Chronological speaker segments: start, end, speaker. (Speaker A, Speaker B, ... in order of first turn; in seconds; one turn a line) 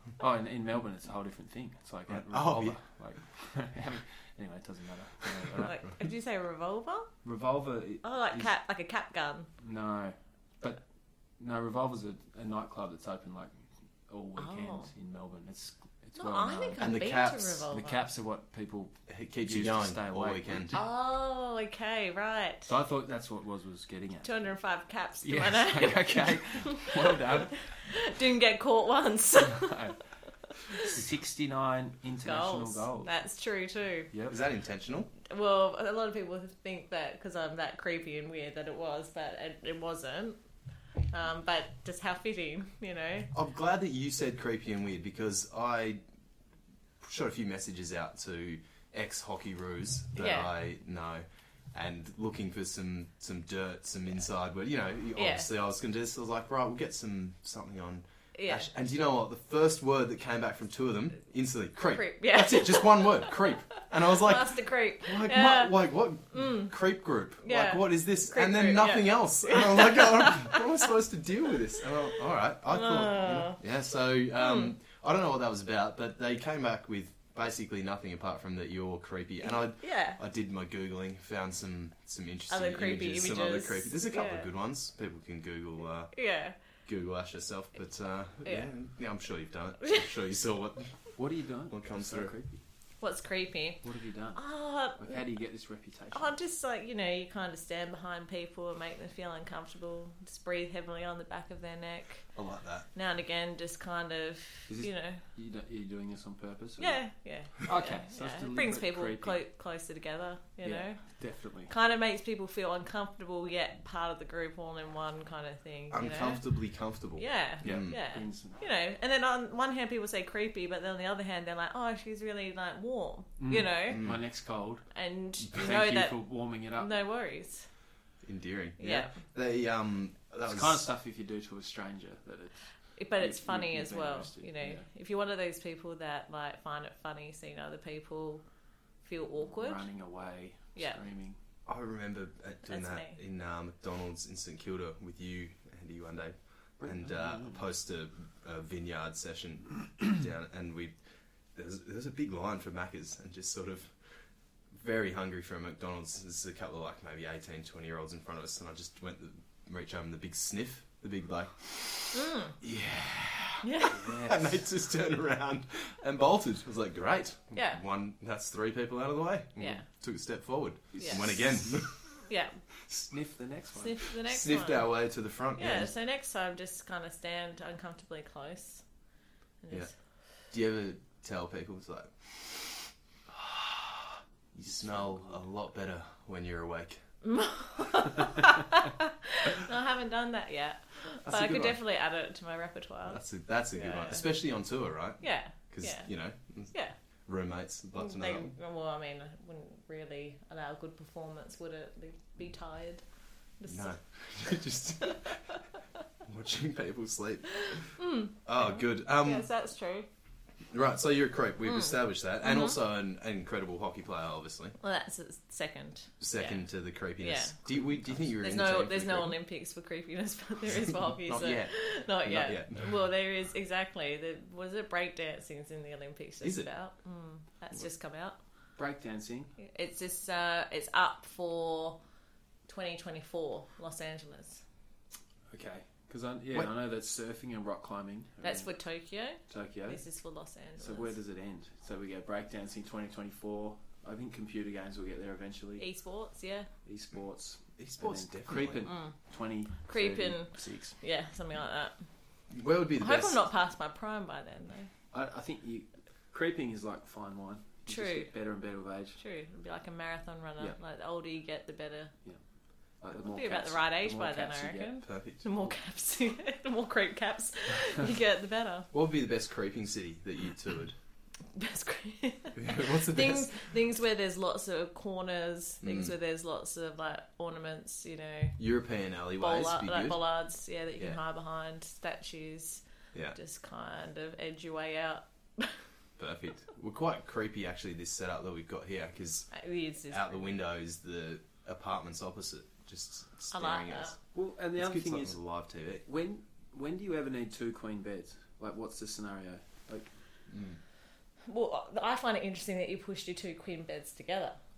Speaker A: 0.2-5.8
Speaker B: 2.1-2.8
Speaker C: 5.6-7.1
Speaker A: 7.2-8.5
Speaker C: 8.0-9.5
Speaker A: 9.6-10.8
Speaker A: 11.4-16.9
Speaker C: 14.4-14.9
Speaker C: 16.2-18.0
Speaker B: 16.8-17.7
Speaker A: 17.7-20.8
Speaker B: 19.1-20.8
Speaker C: 20.7-22.7
Speaker A: 22.7-24.4
Speaker C: 24.2-29.8
Speaker A: 25.2-27.6
Speaker A: 29.6-29.9
Speaker A: 30.7-33.1
Speaker C: 32.2-34.1
Speaker A: 34.1-34.4
Speaker B: 34.3-35.1
Speaker C: 35.2-40.4
Speaker C: 41.1-43.3
Speaker B: 43.3-46.0
Speaker B: 47.0-86.1
Speaker C: 50.2-50.5
Speaker C: 55.1-55.5
Speaker C: 58.3-58.7
Speaker C: 61.8-65.7
Speaker C: 66.3-66.7
Speaker C: 67.4-70.8
Speaker C: 72.7-73.6
Speaker C: 74.4-74.7
Speaker C: 79.4-80.2
Speaker C: 82.5-84.5
Speaker C: 86.1-86.5
Speaker B: 86.8-91.2
Speaker C: 88.4-88.7
Speaker A: 91.2-92.6
Speaker B: 91.7-92.3
Speaker C: 93.0-93.8
Speaker A: 93.8-94.4
Speaker C: 94.3-95.2
Speaker A: 94.9-96.3
Speaker C: 96.1-102.3
Speaker B: 102.3-102.8
Speaker C: 102.9-105.2
Speaker A: 104.7-107.0
Speaker C: 106.8-111.0
Speaker A: 107.6-109.4
Speaker A: 110.6-111.7
Speaker C: 111.7-116.4
Speaker B: 115.9-117.9
Speaker C: 117.2-124.0
Speaker A: 117.6-118.6
Speaker A: 123.4-124.8
Speaker B: 123.9-124.2
Speaker C: 124.9-126.2
Speaker A: 125.5-126.9
Speaker C: 126.8-127.7
Speaker B: 128.2-130.8
Speaker C: 128.8-129.2
Speaker A: 130.4-132.7
Speaker C: 132.9-138.4
Speaker A: 133.2-134.8
Speaker C: 139.0-139.8
Speaker A: 139.6-141.4
Speaker B: 141.7-150.9
Speaker C: 142.7-143.2
Speaker A: 146.8-147.6
Speaker B: 151.5-153.9
Speaker B: 154.7-171.9
Speaker C: 162.1-162.6
Speaker C: 163.6-164.0
Speaker A: 163.9-164.5
Speaker C: 167.5-167.8
Speaker C: 169.6-169.8
Speaker A: 170.9-171.8
Speaker C: 171.0-171.3
Speaker C: 172.3-172.6
Speaker A: 172.8-174.1
Speaker C: 173.8-174.9
Speaker B: 174.3-175.9
Speaker C: 175.5-178.8
Speaker C: 179.6-179.9
Speaker B: 180.5-187.0
Speaker C: 187.2-193.2
Speaker B: 191.2-191.8
Speaker B: 193.1-196.7
Speaker C: 193.7-194.2
Speaker C: 195.2-196.1
Speaker B: 197.2-198.5
Speaker C: 197.9-203.0
Speaker C: 203.6-204.0
Speaker B: 203.7-205.4
Speaker B: 206.2-209.5
Speaker C: 207.9-210.1
Speaker B: 210.7-214.8
Speaker C: 212.4-212.8
Speaker C: 214.8-216.6
Speaker B: 216.2-219.3
Speaker C: 217.2-217.6
Speaker C: 218.4-228.4
Speaker B: 221.2-223.0
Speaker B: 226.4-226.7
Speaker A: 228.8-229.5
Speaker C: 229.6-232.0
Speaker C: 232.7-234.6
Speaker A: 235.5-238.7
Speaker C: 238.4-241.1
Speaker A: 239.5-240.0
Speaker A: 240.8-245.8
Speaker C: 245.8-246.7
Speaker A: 246.8-250.9
Speaker B: 247.8-248.9
Speaker C: 248.8-249.1
Speaker C: 249.9-251.9
Speaker B: 252.5-253.4
Speaker C: 253.0-254.9
Speaker A: 255.1-259.2
Speaker C: 257.9-258.3
Speaker C: 259.2-262.1
Speaker A: 263.0-264.9
Speaker C: 263.2-268.9
Speaker B: 265.0-265.4
Speaker B: 268.9-270.9
Speaker C: 271.5-278.6
Speaker B: 272.6-273.6
Speaker B: 275.8-276.1
Speaker B: 278.6-280.2
Speaker C: 279.4-282.8
Speaker C: 283.3-285.8
Speaker B: 286.2-289.5
Speaker C: 289.5-290.5
Speaker B: 290.1-294.2
Speaker C: 293.5-294.1
Speaker A: 294.3-295.4
Speaker B: 294.8-296.0
Speaker A: 296.1-300.1
Speaker B: 300.5-300.8
Speaker C: 301.5-304.6